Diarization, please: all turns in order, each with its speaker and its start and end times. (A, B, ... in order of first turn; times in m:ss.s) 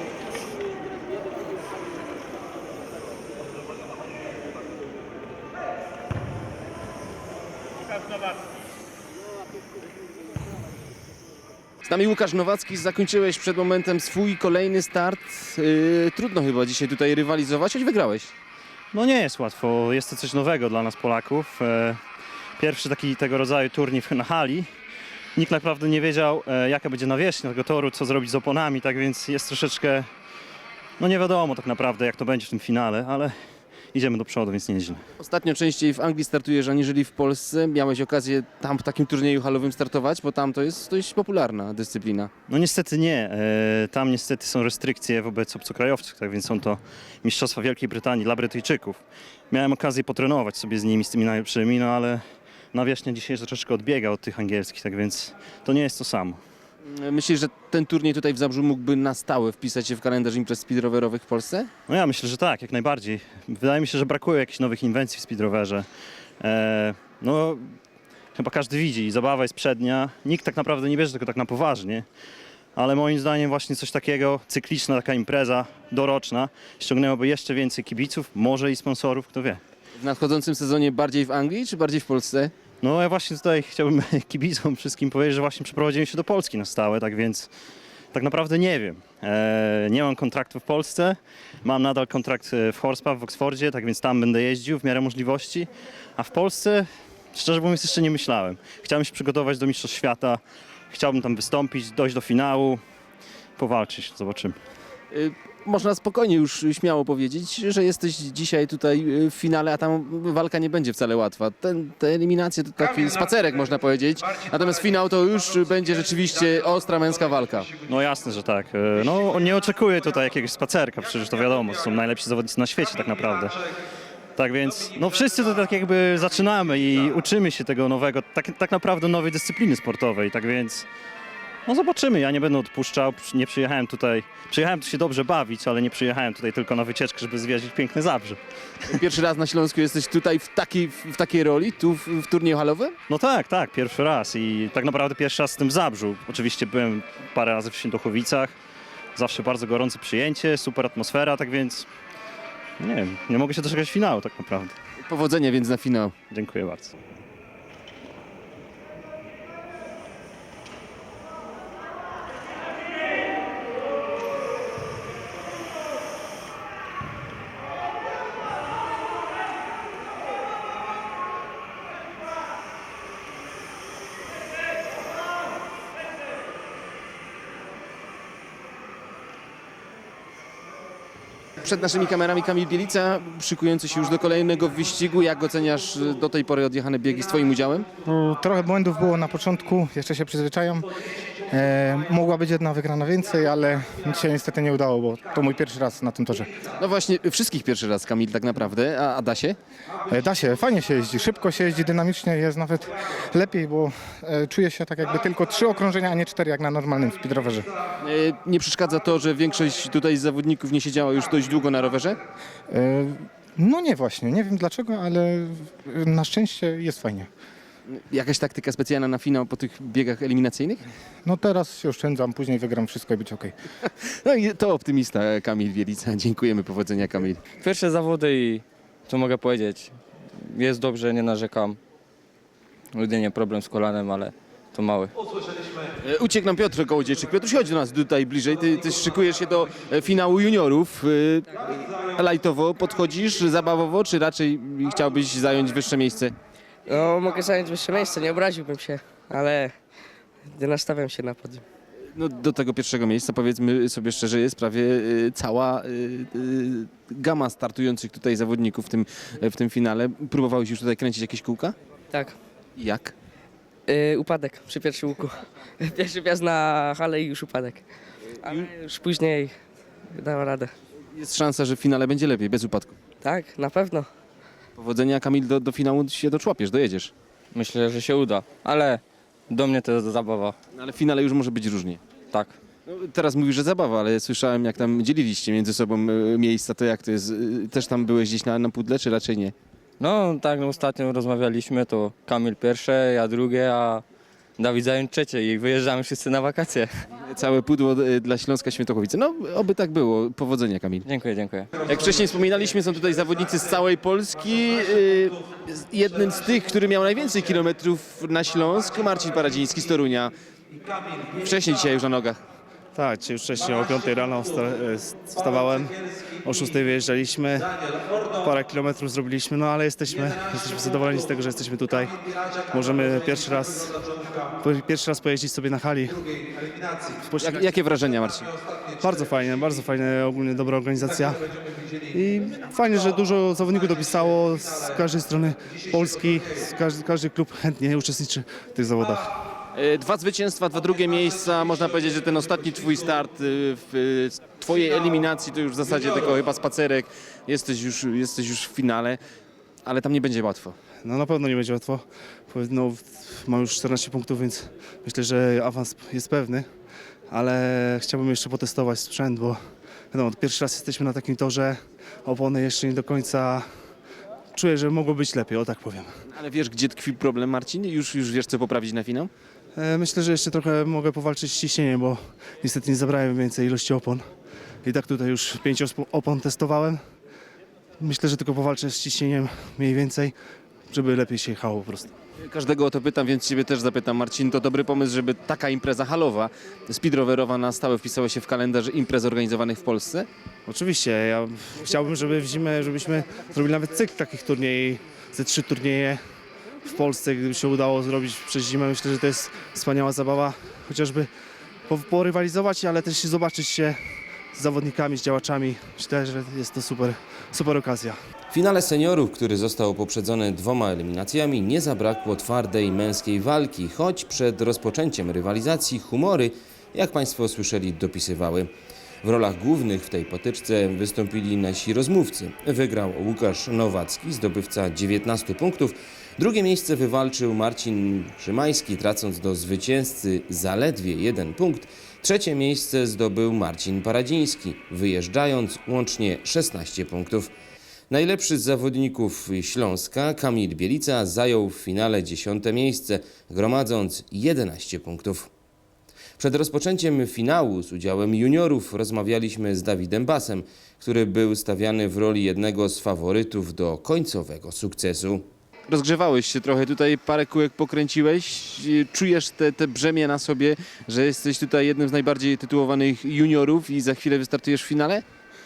0:11.8-0:18.3 A
0:18.9-0:22.0 B
0:22.6-0:24.7 B
0:25.4-0:30.0 B
0:31.0-0:33.3 B
0:33.9-0:35.0 B
0:35.2-0:42.3 A
0:42.5-0:49.0 B
0:49.5-0:52.2 B
0:52.7-0:56.4 B
0:56.8-1:01.7 A
1:01.9-1:05.8 B
1:06.4-1:07.6 B
1:08.3-1:12.0 B
1:12.8-1:19.6 B
1:20.0-1:22.5 A
1:22.8-1:27.5 B
1:28.1-1:42.8 B
1:43.6-1:44.6 B
1:45.1-1:57.7 A
1:57.9-2:03.6 B
2:04.4-2:10.8 B
2:11.6-2:18.4 B
2:18.9-2:23.0 A
2:23.1-2:28.5 B
2:29.2-2:31.9 B
2:32.8-2:34.7 B
2:35.0-2:36.1 A
2:36.3-2:36.9 B
3:01.6-3:07.9 A
3:08.0-3:10.9 C
3:11.5-3:16.5 C
3:16.8-3:19.6 A
3:20.1-3:27.7 C
3:28.0-3:32.2 A
3:32.7-3:37.3 C
3:37.9-3:40.8 A
3:41.2-3:43.5 C
3:43.8-3:47.4 A
3:47.6-3:51.8 D
3:52.9-3:55.1 D
3:56.0-4:06.3 A
4:06.8-4:09.7 E
4:10.5-4:11.6 E
4:12.1-4:21.8 A
4:22.8-4:23.1 A
4:23.9-4:27.8 E
4:28.4-4:29.5 E
4:28.4-4:28.7 A
4:30.1-4:30.7 E
4:31.1-4:33.0 A
4:33.2-4:34.1 E
4:34.8-4:37.1 A
4:37.5-4:40.6 D
4:40.7-4:42.0 A
4:42.3-4:42.6 D
4:42.8-4:49.5 A
4:50.0-4:54.0 D
4:54.6-4:57.0 D
4:57.2-5:01.0 A
5:01.0-5:01.7 D
5:01.8-5:10.3 A
5:11.3-5:12.4 A
5:12.9-5:17.7 F
5:18.4-5:22.1 F
5:22.7-5:24.0 F
5:24.6-5:26.3 F
5:27.2-5:27.8 F
5:27.4-5:28.5 A
5:29.0-5:31.5 F
5:32.1-5:39.3 F
5:39.7-5:49.2 A
5:49.8-5:50.8 A
5:51.0-5:56.7 F
5:57.3-5:59.6 F
6:00.1-6:03.6 F
6:04.5-6:06.1 F
6:06.3-6:09.3 A
6:09.8-6:14.2 F
6:14.8-6:17.0 F
6:18.0-6:20.3 F
6:20.9-6:22.1 F
6:22.4-6:30.3 A
6:30.6-6:36.2 F
6:36.8-6:41.3 F
6:41.9-6:44.0 F
6:44.5-6:48.2 F
6:48.5-6:58.7 G
6:59.2-7:17.5 G
7:18.1-7:25.5 G
7:26.4-7:35.4 G
7:35.9-7:45.2 A